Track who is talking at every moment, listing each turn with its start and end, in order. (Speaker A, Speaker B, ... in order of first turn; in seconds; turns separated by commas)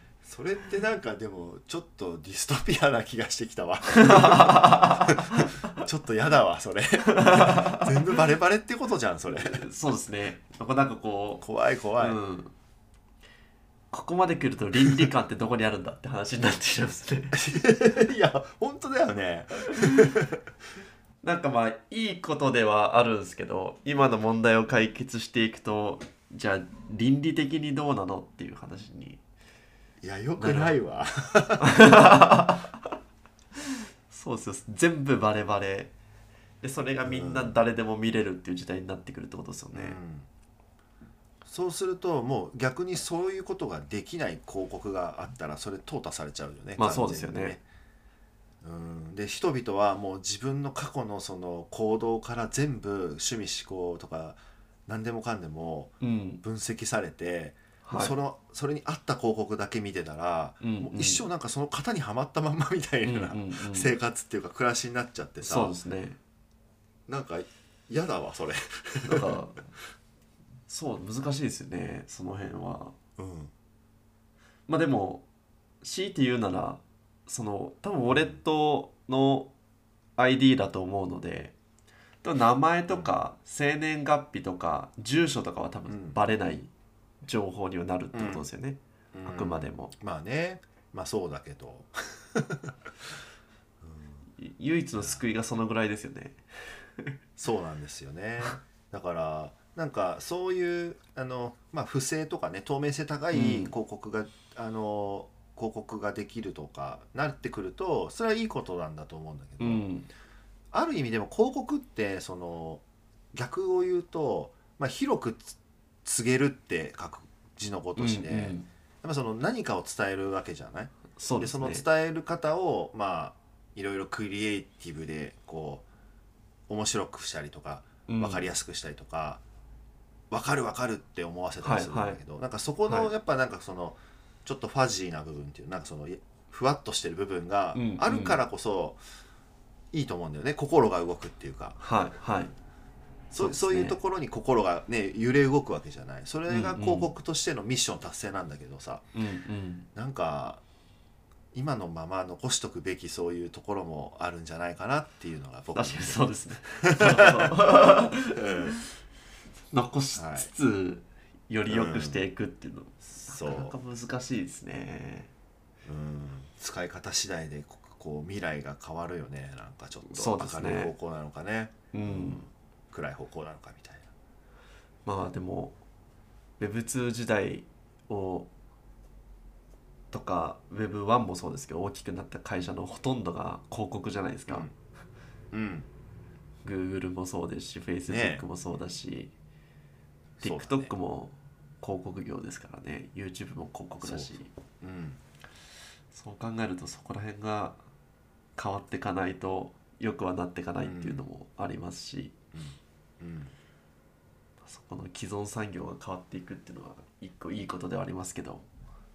Speaker A: 0.2-9.7, Speaker B: 3.9-5.6, Speaker B: 7.1-7.9, Speaker B: 9.3-11.4, Speaker A: 11.4-12.2, Speaker B: 12.0-12.5, Speaker B: 13.9-17.4, Speaker A: 17.3-20.4, Speaker B: 21.2-29.2, Speaker A: 30.0-31.8, Speaker B: 30.4-30.8, Speaker B: 31.6-32.9, Speaker B: 34.1-35.9, Speaker B: 36.6-40.0, Speaker A: 37.0-37.6, Speaker A: 39.7-40.3, Speaker A: 41.4-47.6, Speaker B: 46.8-47.6, Speaker A: 48.6-65.8, Speaker B: 56.0-56.4, Speaker B: 57.8-58.1, Speaker B: 60.6-61.2, Speaker B: 63.0-63.9, Speaker B: 65.4-66.2, Speaker A: 67.1-69.4, Speaker B: 69.0-69.7, Speaker B: 70.7-72.9, Speaker A: 73.2-73.5, Speaker B: 74.7-75.2, Speaker B: 75.8-79.5, Speaker A: 78.0-78.4, Speaker B: 80.2-81.5, Speaker B: 82.2-86.7, Speaker A: 85.9-86.2, Speaker B: 87.2-89.9, Speaker A: 88.1-88.4, Speaker A: 89.1-92.7, Speaker A: 93.8-94.2, Speaker B: 94.4-96.4, Speaker A: 95.0-95.2, Speaker A: 97.4-109.8, Speaker B: 103.3-103.7, Speaker B: 109.6-110.1, Speaker A: 110.7-125.9, Speaker B: 118.0-118.7, Speaker B: 121.2-121.8, Speaker A: 126.7-129.4, Speaker B: 128.1-128.5, Speaker A: 130.3-139.0, Speaker B: 131.6-132.2, Speaker B: 137.7-138.4, Speaker A: 139.9-141.8, Speaker B: 141.8-142.5, Speaker A: 143.3-149.1, Speaker B: 143.4-144.0, Speaker B: 146.5-147.1, Speaker B: 149.1-149.9, Speaker A: 149.9-150.6, Speaker A: 151.5-157.7, Speaker B: 155.8-158.7, Speaker A: 158.4-158.8, Speaker B: 159.7-165.3, Speaker A: 160.1-160.5, Speaker A: 161.7-162.2, Speaker A: 163.2-163.8, Speaker A: 165.8-174.1, Speaker B: 170.1-170.9, Speaker B: 171.9-172.4, Speaker B: 175.1-175.8, Speaker B: 176.6-178.5, Speaker B: 180.1-184.7, Speaker A: 184.5-184.7, Speaker A: 185.5-185.9, Speaker B: 186.6-189.3, Speaker A: 188.1-188.4, Speaker A: 190.4-190.9, Speaker B: 190.4-194.5, Speaker A: 194.0-195.2, Speaker B: 196.1-197.8, Speaker B: 198.6-202.3, Speaker A: 200.8-201.3, Speaker A: 202.5-203.5, Speaker B: 204.6-208.7